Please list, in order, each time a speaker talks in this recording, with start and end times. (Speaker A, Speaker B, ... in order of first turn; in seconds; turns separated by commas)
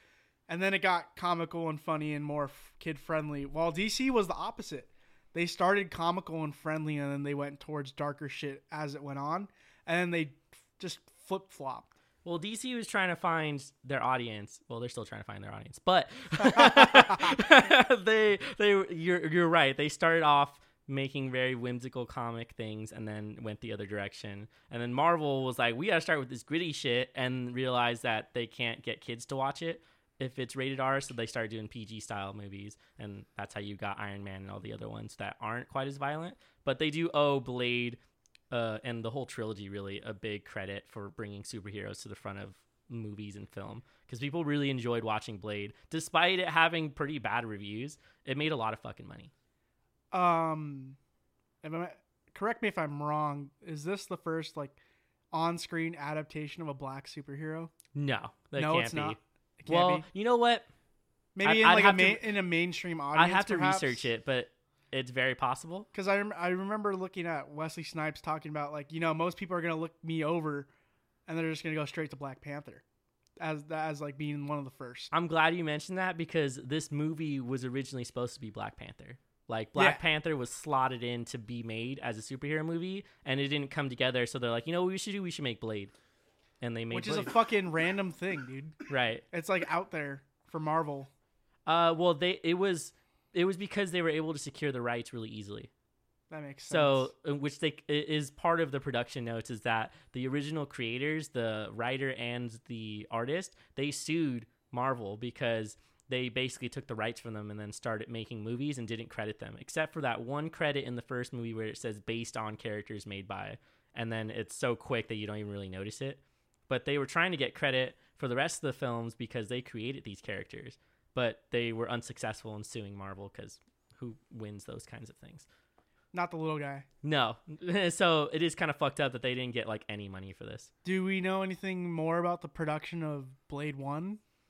Speaker A: 0.5-11.9, Speaker B: 12.2-38.0, Speaker A: 16.5-17.4, Speaker B: 38.5-49.3, Speaker A: 50.1-51.0, Speaker A: 51.6-54.8, Speaker A: 55.3-57.7, Speaker B: 57.9-60.7, Speaker A: 58.6-60.0, Speaker A: 61.4-64.1, Speaker B: 61.4-62.2, Speaker B: 63.1-65.9, Speaker A: 65.9-70.7, Speaker A: 71.3-72.8, Speaker A: 73.4-75.1, Speaker B: 75.1-85.9, Speaker A: 79.8-80.0, Speaker B: 86.6-87.3, Speaker A: 86.9-91.1, Speaker B: 88.9-89.2, Speaker B: 91.7-95.7, Speaker A: 96.3-97.1, Speaker B: 96.7-125.5, Speaker A: 126.1-126.9, Speaker B: 127.0-130.7, Speaker A: 130.8-134.2